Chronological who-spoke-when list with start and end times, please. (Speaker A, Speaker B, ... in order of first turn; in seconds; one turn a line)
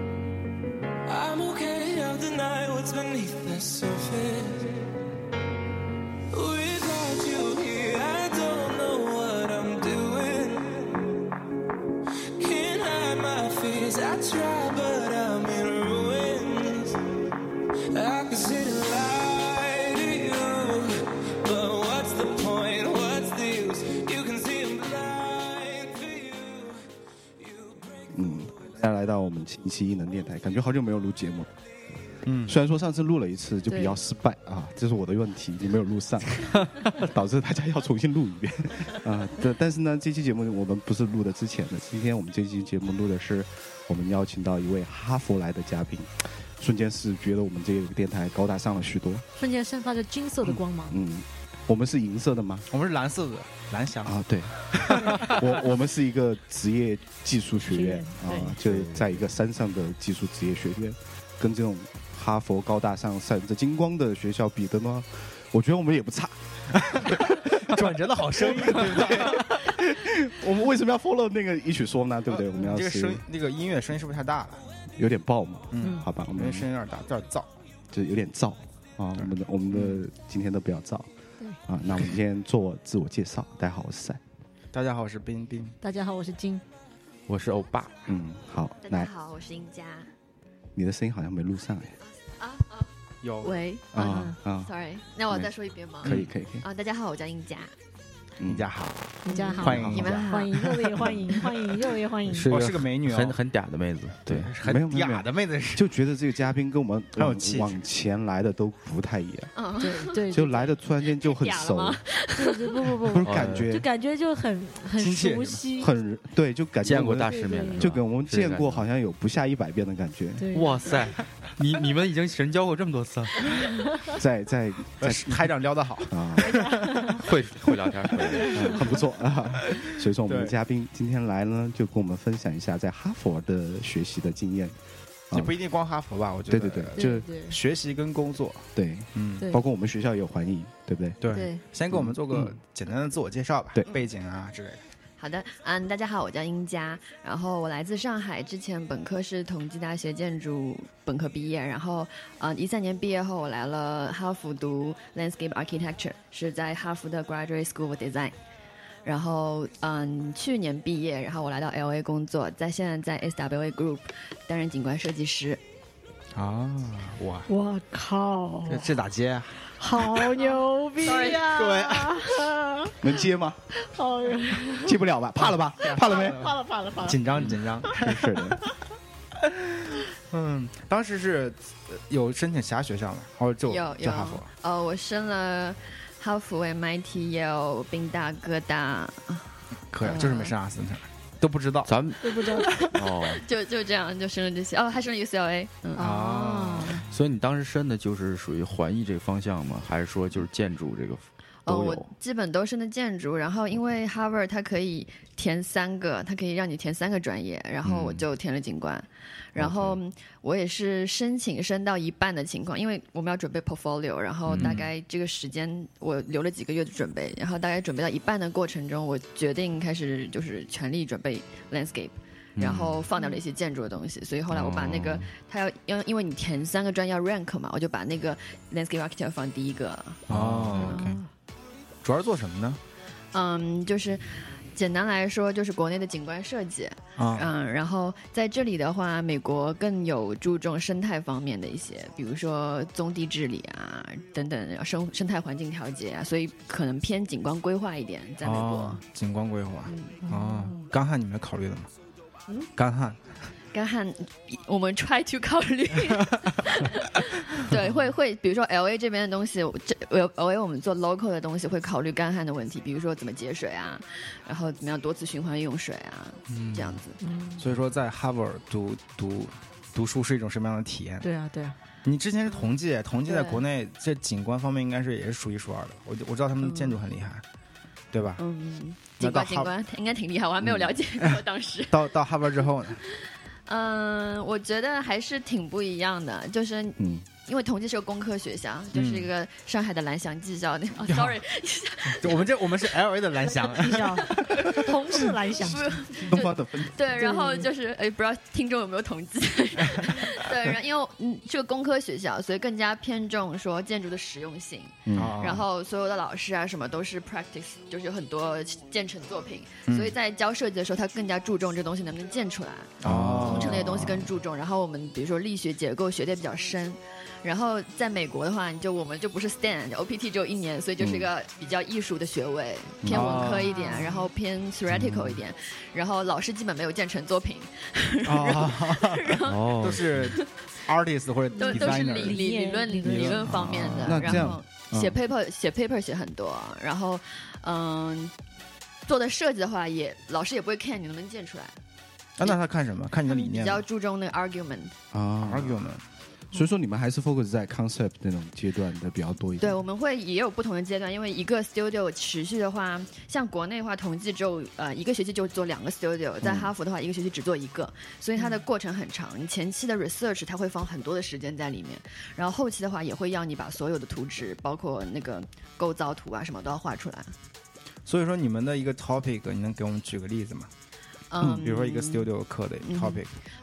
Speaker A: 1.1-4.8
Speaker A: 6.3-11.1
Speaker A: 12.4-17.0
Speaker A: 17.9-27.9
Speaker B: 28.1-31.5
Speaker C: 32.2-32.6
Speaker B: 32.4-49.3
Speaker D: 33.7-34.0
Speaker D: 49.4-51.0
Speaker B: 50.4-52.7
Speaker C: 52.7-55.5
Speaker B: 54.0-73.2
Speaker D: 57.7-58.6
Speaker E: 58.7-59.1
Speaker C: 66.8-69.7
Speaker C: 72.3-74.6
Speaker B: 75.0-76.7
Speaker C: 75.7-77.5
Speaker B: 77.9-81.1
Speaker C: 79.2-80.0
Speaker B: 81.7-84.2
Speaker C: 84.7-85.7
Speaker D: 85.8-86.6
Speaker E: 87.3-88.0
Speaker B: 88.1-89.1
Speaker F: 88.8-90.1
Speaker B: 90.7-92.0
Speaker F: 92.2-92.9
Speaker C: 93.2-93.6
Speaker F: 93.4-97.7
Speaker B: 93.9-94.7
Speaker C: 96.0-96.3
Speaker B: 96.0-96.6
Speaker B: 98.4-98.7
Speaker C: 98.4-101.3
Speaker D: 99.2-102.5
Speaker F: 99.3-100.6
Speaker B: 99.6-100.2
Speaker E: 102.3-104.5
Speaker C: 102.5-103.4
Speaker C: 104.3-105.9
Speaker B: 104.6-109.5
Speaker C: 107.2-107.8
Speaker F: 109.5-110.4
Speaker D: 109.8-110.7
Speaker B: 110.3-112.0
Speaker F: 111.0-112.9
Speaker D: 112.3-115.9
Speaker B: 113.1-113.9
Speaker E: 113.2-113.7
Speaker C: 115.0-115.6
Speaker B: 115.7-120.5
Speaker E: 116.8-118.7
Speaker D: 117.1-118.0
Speaker D: 120.4-121.0
Speaker E: 120.5-123.4
Speaker B: 124.1-125.5
Speaker C: 125.0-127.1
Speaker B: 126.1-126.7
Speaker D: 126.4-127.3
Speaker E: 127.1-128.6
Speaker C: 127.8-128.8
Speaker D: 128.4-128.8
Speaker B: 128.5-134.8
Speaker C: 129.6-130.5
Speaker C: 135.3-139.5
Speaker B: 136.5-137.3
Speaker D: 136.9-137.6
Speaker B: 138.7-141.2
Speaker C: 141.2-144.8
Speaker D: 141.3-141.6
Speaker B: 141.9-142.5
Speaker F: 145.2-158.3
Speaker F: 159.0-165.6
Speaker C: 166.3-167.5
Speaker D: 167.5-168.9
Speaker C: 168.7-172.4
Speaker D: 169.8-172.9
Speaker F: 171.0-171.7
Speaker B: 173.0-173.7
Speaker D: 173.8-175.0
Speaker B: 174.7-176.5
Speaker C: 175.5-178.6
Speaker D: 175.9-177.2
Speaker B: 178.0-178.6
Speaker C: 179.4-184.4
Speaker F: 183.6-189.5
Speaker C: 189.9-191.9
Speaker F: 190.0-190.5
Speaker E: 191.8-192.3
Speaker D: 192.2-192.8
Speaker F: 192.6-196.2
Speaker E: 192.9-193.4
Speaker D: 196.0-197.0
Speaker C: 196.0-197.1
Speaker E: 197.1-202.1
Speaker F: 201.7-230.3
Speaker C: 207.8-208.2
Speaker E: 209.6-209.9
Speaker C: 214.5-214.9
Speaker E: 222.6-223.0
Speaker E: 224.7-225.2
Speaker C: 230.3-231.2
Speaker B: 230.3-230.7
Speaker E: 230.3-230.8
Speaker D: 230.7-231.2
Speaker C: 232.0-232.8
Speaker F: 233.3-249.0
Speaker C: 237.2-237.5
Speaker C: 248.4-251.9
Speaker F: 249.9-250.2
Speaker D: 250.2-250.7
Speaker C: 252.8-253.3
Speaker F: 253.7-267.2
Speaker C: 266.5-267.0
Speaker D: 267.2-267.6
Speaker C: 267.6-271.3
Speaker D: 271.2-271.7
Speaker C: 272.0-277.4
Speaker F: 273.3-273.6
Speaker F: 276.6-277.0
Speaker C: 278.1-278.4
Speaker F: 278.4-282.2
Speaker C: 279.2-279.7
Speaker C: 281.2-283.0
Speaker F: 283.6-292.6
Speaker B: 287.0-287.2
Speaker C: 288.9-289.3
Speaker C: 291.1-291.4
Speaker C: 292.0-295.2
Speaker D: 293.8-296.5
Speaker F: 294.2-330.4
Speaker B: 296.2-297.0
Speaker D: 297.1-297.7
Speaker C: 300.0-300.3
Speaker B: 305.1-305.4
Speaker C: 305.1-305.6
Speaker C: 309.9-310.1
Speaker C: 313.0-314.1
Speaker B: 313.0-314.3
Speaker B: 323.0-323.4
Speaker C: 323.1-323.7
Speaker D: 323.5-324.2
Speaker C: 328.2-332.4
Speaker E: 329.4-330.2
Speaker D: 331.5-334.0
Speaker F: 331.6-338.3
Speaker C: 333.0-334.4
Speaker B: 334.0-335.2
Speaker F: 339.0-341.8
Speaker C: 342.4-343.8
Speaker F: 343.2-344.9
Speaker B: 345.1-345.9
Speaker C: 345.4-346.0
Speaker B: 346.5-349.8
Speaker F: 349.6-367.3
Speaker B: 356.4-356.7
Speaker C: 368.1-370.7
Speaker F: 371.3-372.3
Speaker B: 371.4-371.7
Speaker C: 371.6-373.3
Speaker F: 372.8-373.2